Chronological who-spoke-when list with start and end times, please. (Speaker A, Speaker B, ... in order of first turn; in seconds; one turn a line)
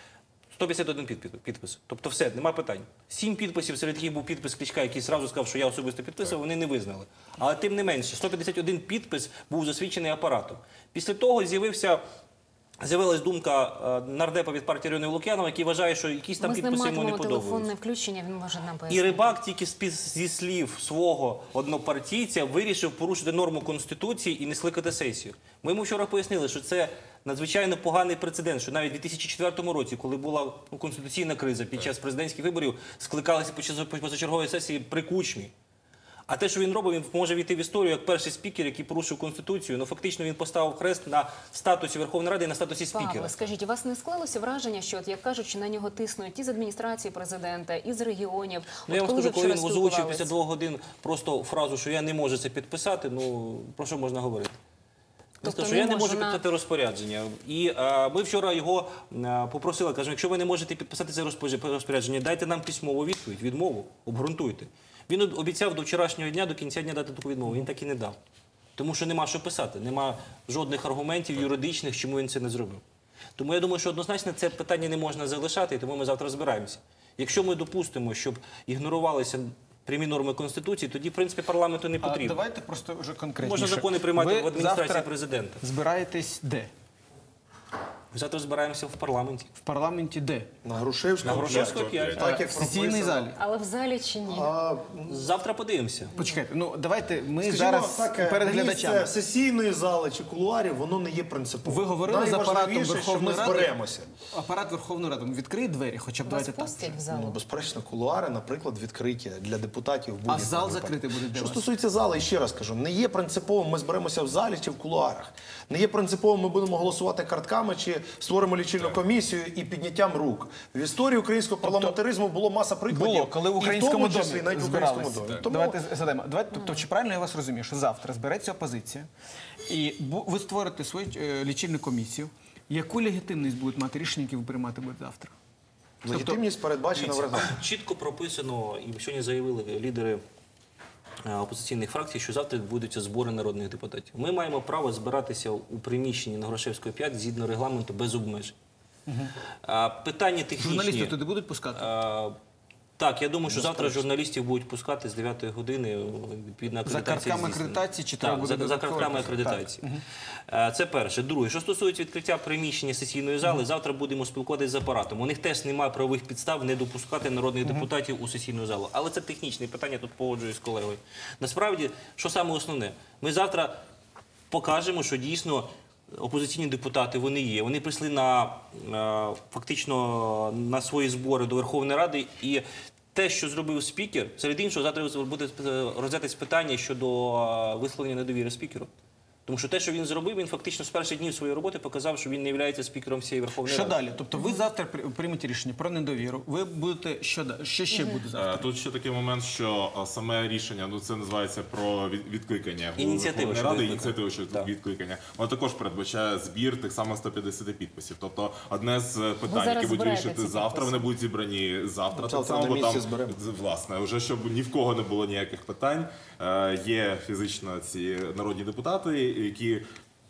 Speaker A: 0.5-12.0
Speaker A: 12.8-17.7
Speaker B: 16.4-19.3
Speaker A: 18.9-35.5
Speaker A: 36.3-43.4
Speaker B: 42.9-50.3
Speaker A: 48.9-54.6
Speaker B: 55.4-56.4
Speaker A: 55.4-68.2
Speaker A: 68.8-72.8
Speaker A: 73.4-82.4
Speaker C: 82.0-85.1
Speaker A: 83.4-85.6
Speaker C: 85.6-86.7
Speaker A: 88.1-89.5
Speaker C: 89.6-90.5
Speaker D: 90.6-93.4
Speaker A: 91.2-92.2
Speaker E: 91.2-92.2
Speaker C: 92.2-93.4
Speaker B: 93.4-94.5
Speaker D: 94.2-95.2
Speaker A: 95.1-96.1
Speaker C: 96.1-99.1
Speaker D: 97.4-104.2
Speaker C: 101.6-107.0
Speaker B: 106.2-107.4
Speaker D: 107.1-125.8
Speaker C: 110.3-111.7
Speaker C: 121.6-122.0
Speaker C: 122.9-129.1
Speaker B: 126.5-126.9
Speaker C: 129.7-135.3
Speaker D: 136.0-137.6
Speaker C: 136.1-136.4
Speaker A: 136.9-140.2
Speaker A: 141.2-148.6
Speaker C: 149.1-149.3
Speaker A: 149.6-151.2
Speaker C: 150.6-151.9
Speaker A: 151.8-152.4
Speaker A: 153.0-159.9
Speaker C: 153.5-154.1
Speaker C: 156.8-160.0
Speaker A: 160.5-173.8
Speaker A: 174.5-188.9
Speaker A: 189.4-194.0
Speaker C: 193.6-198.7
Speaker B: 194.4-194.6
Speaker B: 197.9-198.2
Speaker E: 198.4-219.8
Speaker A: 203.0-204.7
Speaker B: 209.5-211.1
Speaker D: 212.1-213.4